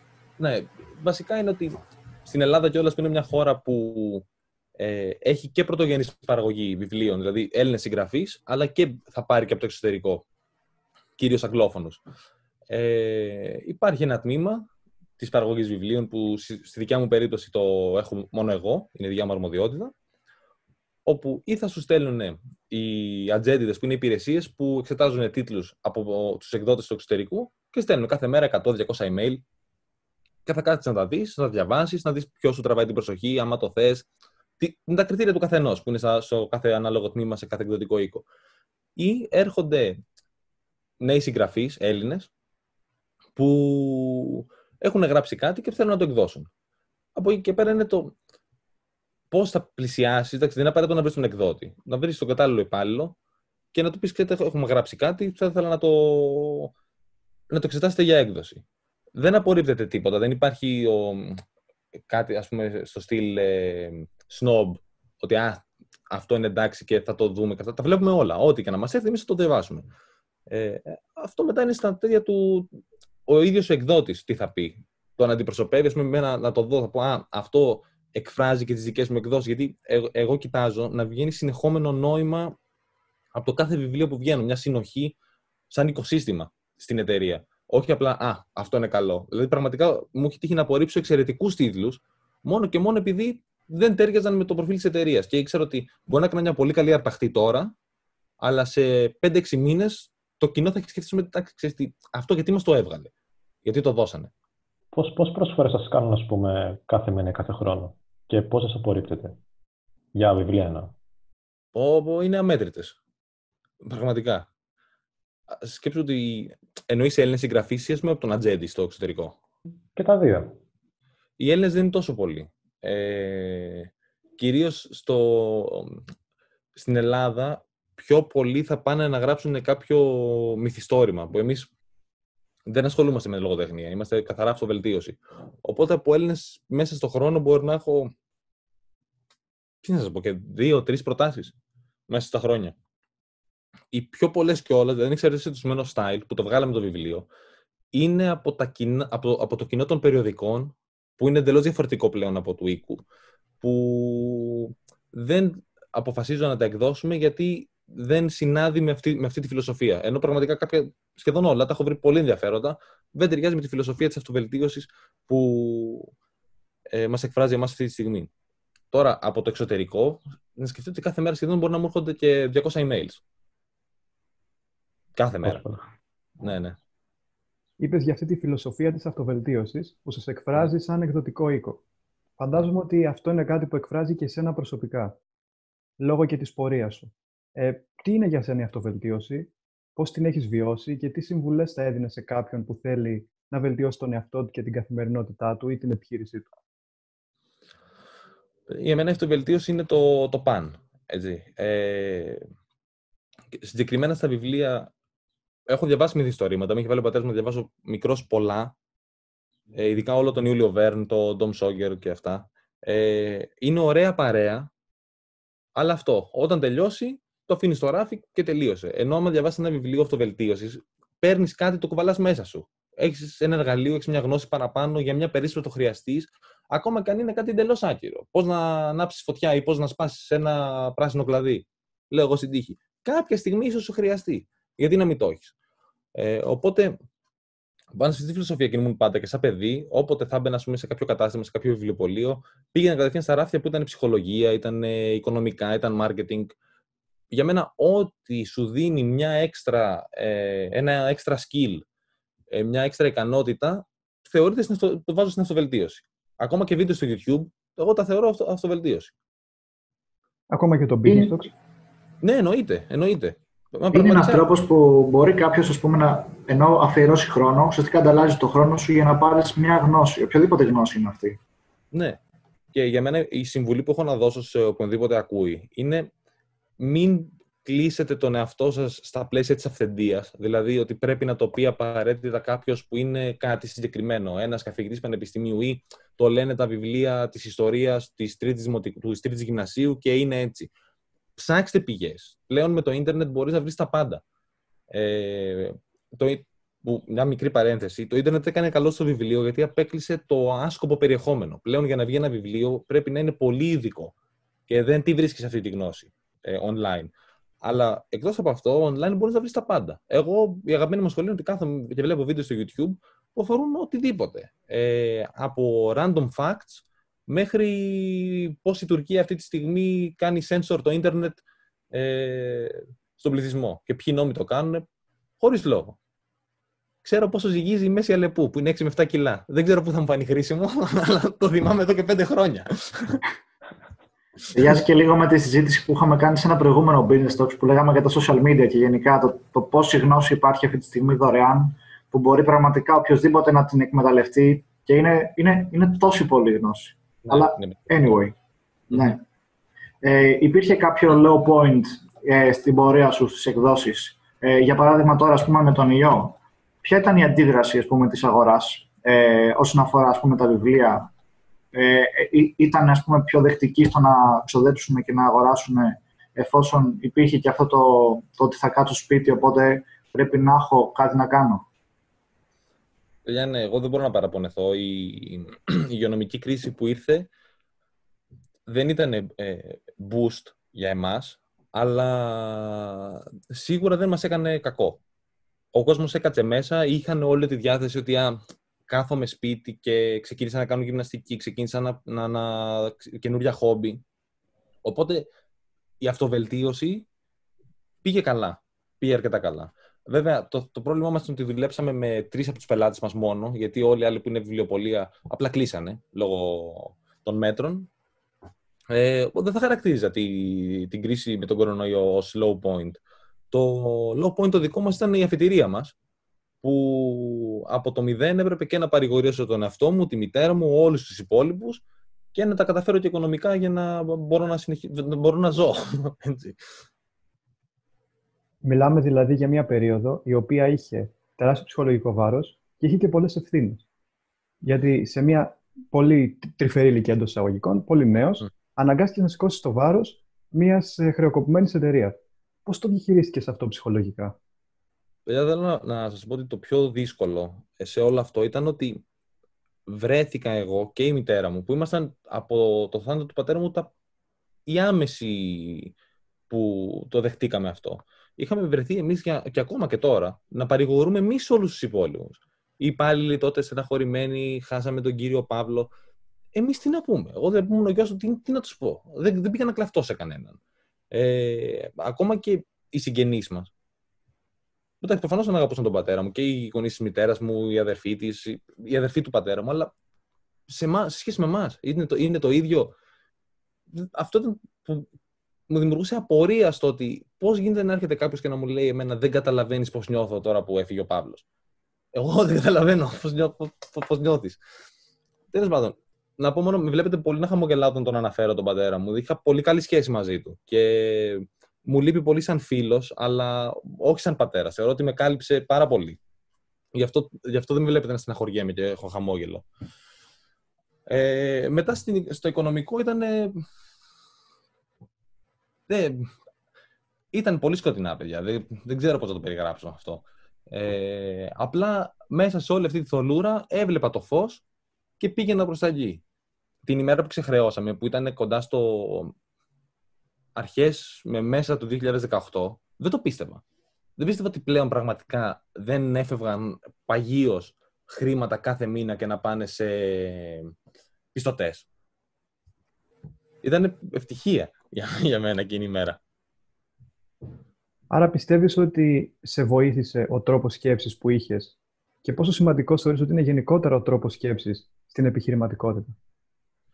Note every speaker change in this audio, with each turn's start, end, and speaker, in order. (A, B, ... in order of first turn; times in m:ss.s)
0:00.4-0:04.2 A
0:04.8-0:10.2 A
0:11.2-0:12.0 A
0:12.7-0:14.7 A
0:15.2-0:19.9 A
0:21.0-0:29.4 A
0:30.4-0:34.1 A
0:34.6-0:38.2 A
0:39.0-0:40.0 A
0:41.0-0:42.3 A
0:43.4-0:46.5 A
0:47.2-0:48.1 A
0:49.3-0:53.1 A
0:53.7-0:56.7 A
0:57.5-0:58.6 A
0:59.2-1:01.4 A
1:02.1-1:09.8 A
1:10.5-1:12.7 A
1:13.3-1:22.6 A
1:23.3-1:25.2 A
1:25.7-1:37.7 A
1:38.4-1:43.1 A
1:43.6-1:44.3 A
1:44.9-1:49.4 B
1:50.1-1:50.9 B
1:51.7-1:53.0 A
1:53.8-1:54.5 A
1:55.5-1:59.4 A
1:59.9-2:00.6 B
2:01.4-2:06.0 A
2:06.7-2:11.7 A
2:12.7-2:18.1 A
2:19.8-2:21.5 A
2:22.1-2:22.8 A
2:23.9-2:27.3 A
2:27.9-2:33.0 A
2:33.6-2:46.1 A
2:46.9-2:48.3 A
2:48.9-2:53.2 A
2:55.2-2:55.6 A
2:55.4-2:55.8 B
2:56.4-2:56.8 A
2:57.8-3:01.8 C
3:02.4-3:05.2 C
3:06.0-3:16.5 C
3:18.7-3:22.4 A
3:23.6-3:24.9 A
3:25.7-3:28.7 A
3:29.7-3:34.7 A
3:35.8-3:55.5 A
3:56.1-3:57.0 A
3:57.9-4:06.5 A
4:07.3-4:11.8 A
4:12.5-4:19.1 A
4:20.5-4:21.5 C
4:21.1-4:21.3 D
4:22.2-4:24.4 A
4:23.9-4:31.4 D
4:31.9-4:32.2 A
4:32.7-4:36.1 A
4:36.8-4:50.7 A
4:51.4-4:54.2 A
4:54.9-5:04.1 A
5:04.7-5:07.1 A
5:07.6-5:21.4 A
5:21.9-5:24.8 A
5:25.4-5:26.0 A
5:27.0-5:33.2 A
5:34.5-5:48.3 D
5:47.2-5:48.1 A
5:48.9-5:49.2 D
5:50.0-6:01.1 D
6:01.7-6:11.6 D
6:13.2-6:17.3 A
6:18.7-6:25.0 A
6:25.7-6:34.0 A
6:34.8-6:35.3 A
6:36.0-6:37.0 A
6:38.0-6:47.9 A
6:48.9-6:53.0 A
6:53.5-6:55.9 A
6:56.6-7:01.8 A
7:02.3-7:06.6 A
7:08.6-7:13.8 C
7:14.6-7:24.4 C
7:25.2-7:29.0 A
7:29.9-7:33.9 A
7:34.7-7:35.9 A
7:36.5-7:45.9 A
7:46.5-7:50.6 A
7:51.1-7:53.7 A
7:55.0-7:59.9 A
8:00.7-8:02.9 A
8:03.9-8:05.1 A
8:05.7-8:11.4 A
8:12.1-8:14.6 A
8:15.5-8:26.2 A
8:26.9-8:29.6 A
8:31.1-8:33.5 A
8:35.9-8:36.3 A
8:37.3-8:44.6 A
8:45.2-8:46.2 A
8:46.8-8:49.3 A
8:50.6-8:53.6 A
8:54.2-9:00.7 A
9:01.3-9:01.9 A
9:03.6-9:06.2 A
9:08.1-9:16.2 C